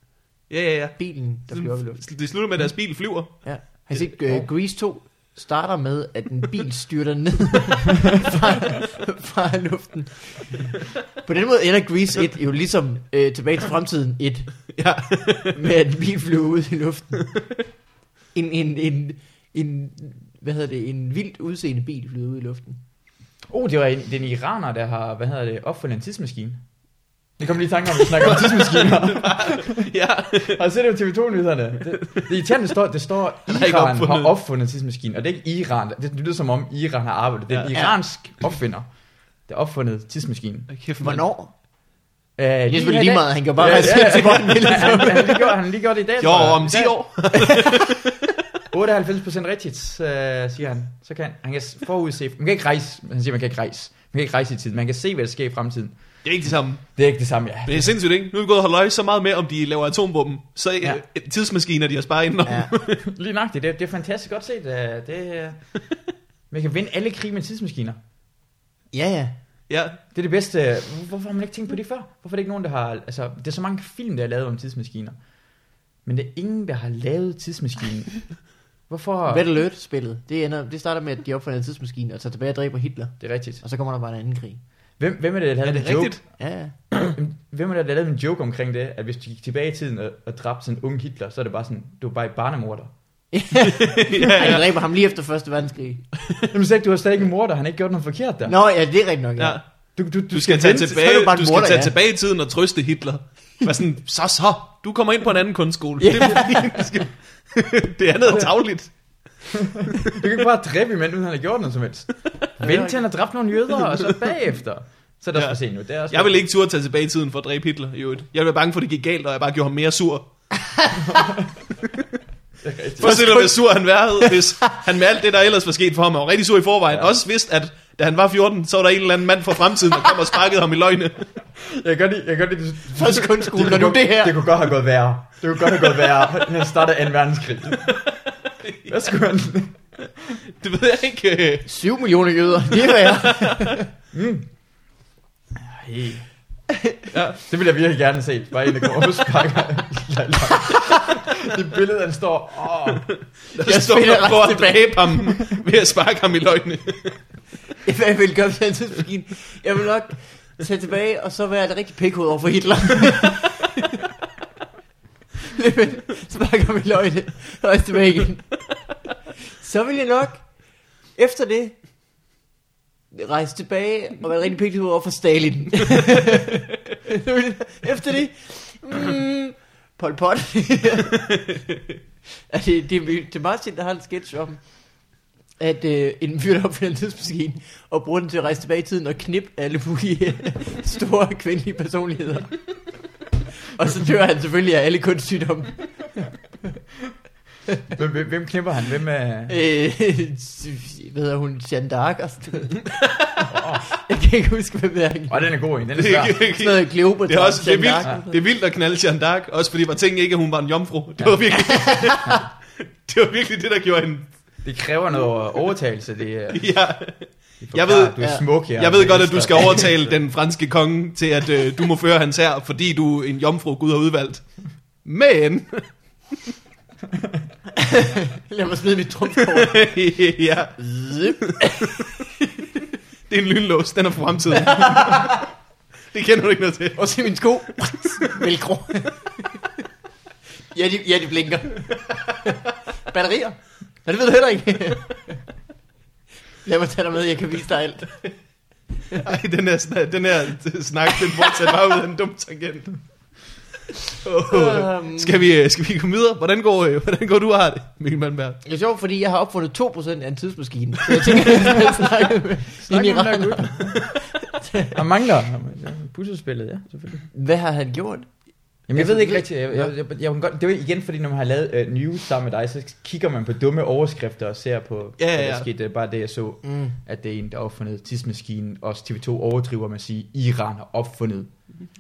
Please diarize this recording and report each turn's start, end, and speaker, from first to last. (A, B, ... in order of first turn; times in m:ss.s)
0:00.5-0:04.1 A
0:01.0-0:02.0 B
0:03.4-0:14.7 B
0:14.7-0:15.6 A
0:15.5-0:17.3 B
0:18.3-0:22.8 B
0:23.5-0:26.6 C
0:27.4-0:29.8 C
0:28.0-0:30.6 A
0:30.4-0:38.9 C
0:32.0-0:32.4 A
0:33.5-0:34.3 A
0:37.5-0:37.8 A
0:37.7-0:38.0 B
0:39.4-0:40.7 C
0:40.7-0:41.2 A
0:41.0-0:41.5 B
0:42.4-0:47.2 C
0:42.7-0:45.5 B
0:46.2-0:48.0 A
0:48.7-0:56.2 C
0:56.2-0:57.1 A
0:57.0-0:57.9 C
0:57.6-1:03.0 A
1:03.0-1:05.7 C
1:06.5-1:08.0 C
1:08.9-1:09.4 B
1:09.7-1:10.0 A
1:10.1-1:15.2 C
1:16.0-1:19.4 C
1:19.3-1:24.6 B
1:23.2-1:23.6 C
1:25.0-1:32.9 C
1:25.6-1:26.2 A
1:26.4-1:26.8 B
1:33.3-1:36.1 B
1:33.8-1:34.8 A
1:36.5-1:38.5 C
1:38.5-1:39.6 B
1:39.4-1:39.6 A
1:40.0-1:41.0 C
1:40.3-1:49.5 A
1:40.9-1:41.9 B
1:46.0-1:46.8 B
1:49.7-1:56.4 C
1:52.6-1:53.0 B
1:53.8-1:54.2 A
1:55.4-2:00.3 A
2:00.8-2:01.3 B
2:01.1-2:01.4 C
2:02.6-2:03.3 C
2:03.0-2:11.3 A
2:03.0-2:03.6 B
2:04.2-2:04.8 B
2:06.9-2:07.2 C
2:11.6-2:18.0 C
2:12.9-2:14.4 B
2:17.9-2:19.0 A
2:18.9-2:20.0 C
2:20.6-2:21.7 A
2:21.7-2:23.8 B
2:22.7-2:23.8 A
2:24.1-2:24.5 C
2:25.6-2:26.3 C
2:27.1-2:27.4 A
2:27.5-2:33.1 C
2:33.5-2:37.2 A
2:33.6-2:35.1 B
2:37.8-2:44.0 B
2:45.5-2:48.7 B
2:49.6-2:50.5 B
2:51.1-2:51.8 B
2:53.1-3:01.6 B
3:02.5-3:04.8 B
3:05.6-3:12.8 B
3:13.7-3:16.3 B
3:17.9-3:19.6 C
3:19.5-3:25.5 B
3:23.5-3:23.9 C
3:25.3-3:26.4 C
3:26.0-3:32.5 A
3:26.4-3:28.4 B
3:33.0-3:34.3 A
3:34.6-3:36.7 C
3:36.5-3:46.5 A
3:37.6-3:40.2 C
3:38.2-3:38.4 B
3:47.8-3:49.9 B
3:49.4-3:50.9 A
3:50.8-3:52.1 B
3:51.4-3:52.1 A
3:53.3-3:55.4 A
3:54.6-3:55.4 B
3:56.1-3:57.3 A
3:57.0-3:59.4 B
3:57.9-3:58.3 A
4:00.7-4:05.4 B
4:06.6-4:08.3 B
4:09.1-4:13.0 A
4:14.2-4:18.6 A
4:14.5-4:15.4 B
4:18.6-4:25.0 B
4:22.8-4:24.1 C
4:24.9-4:27.3 C
4:27.3-4:28.4 B
4:28.9-4:41.5 C
4:28.9-4:29.9 B
4:35.2-4:35.7 A
4:36.6-4:37.0 B